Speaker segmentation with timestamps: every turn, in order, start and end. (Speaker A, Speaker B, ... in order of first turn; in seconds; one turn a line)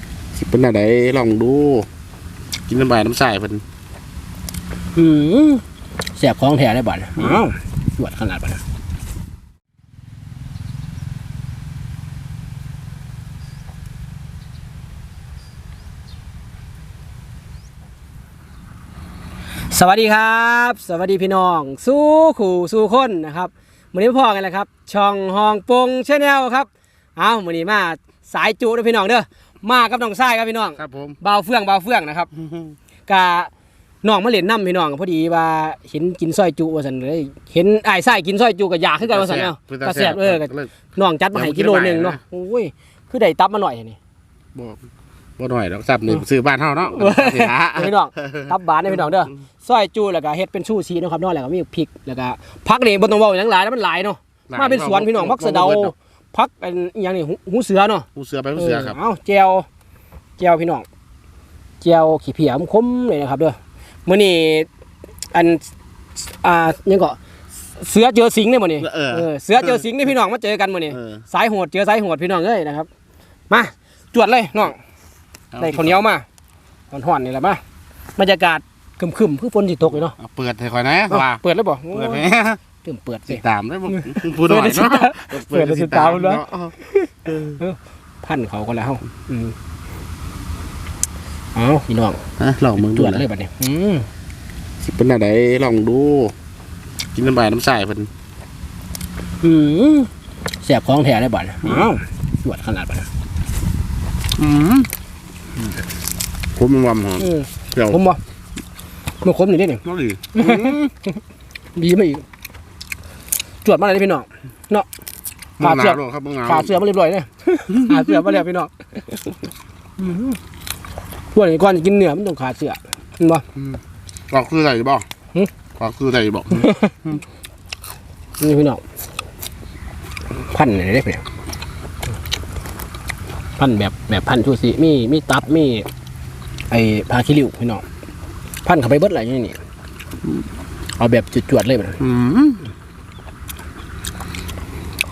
Speaker A: 0.3-1.9
Speaker A: 2.7-3.6
Speaker B: 5.0-5.6
Speaker B: 6.2-8.6
Speaker B: 19.7-32.3
Speaker A: 30.8-31.2
Speaker A: 32.4-32.7
Speaker B: 33.1-33.5
Speaker B: 34.0-44.0
Speaker A: 39.0-40.8
Speaker A: 41.3-42.2
Speaker A: 44.5-44.8
Speaker A: 45.4-48.5
Speaker B: 46.9-59.7
Speaker A: 54.5-55.9
Speaker A: 58.1-59.0
Speaker B: 60.4-60.9
Speaker B: 61.8-64.7
Speaker B: 65.3-65.6
Speaker B: 66.2-67.2
Speaker B: 67.8-72.9
Speaker A: 68.8-69.8
Speaker A: 70.9-71.2
Speaker B: 73.5-74.8
Speaker A: 75.5-76.0
Speaker B: 75.6-76.2
Speaker B: 76.9-77.6
Speaker B: 78.2-80.2
Speaker A: 80.0-81.4
Speaker B: 81.1-82.3
Speaker A: 81.9-82.6
Speaker B: 82.8-89.5
Speaker A: 83.3-86.8
Speaker A: 87.3-87.6
Speaker B: 91.5-92.2
Speaker A: 92.4-93.2
Speaker B: 92.8-94.1
Speaker A: 94.8-96.3
Speaker A: 97.1-98.1
Speaker B: 99.4-100.1
Speaker B: 100.6-103.1
Speaker A: 104.4-104.9
Speaker A: 106.6-108.0
Speaker B: 107.2-108.2
Speaker B: 109.2-109.8
Speaker A: 109.8-110.8
Speaker B: 110.4-111.1
Speaker B: 111.8-112.2
Speaker B: 113.6-114.9
Speaker A: 115.6-116.8
Speaker B: 115.6-119.2
Speaker B: 120.0-120.4
Speaker B: 121.3-123.4
Speaker A: 124.3-125.1
Speaker A: 125.8-126.8
Speaker B: 126.5-126.9
Speaker B: 128.4-128.8
Speaker B: 130.3-131.2
Speaker B: 133.6-135.9
Speaker B: 136.7-137.8
Speaker B: 138.7-139.6
Speaker B: 141.0-142.0
Speaker A: 142.0-142.7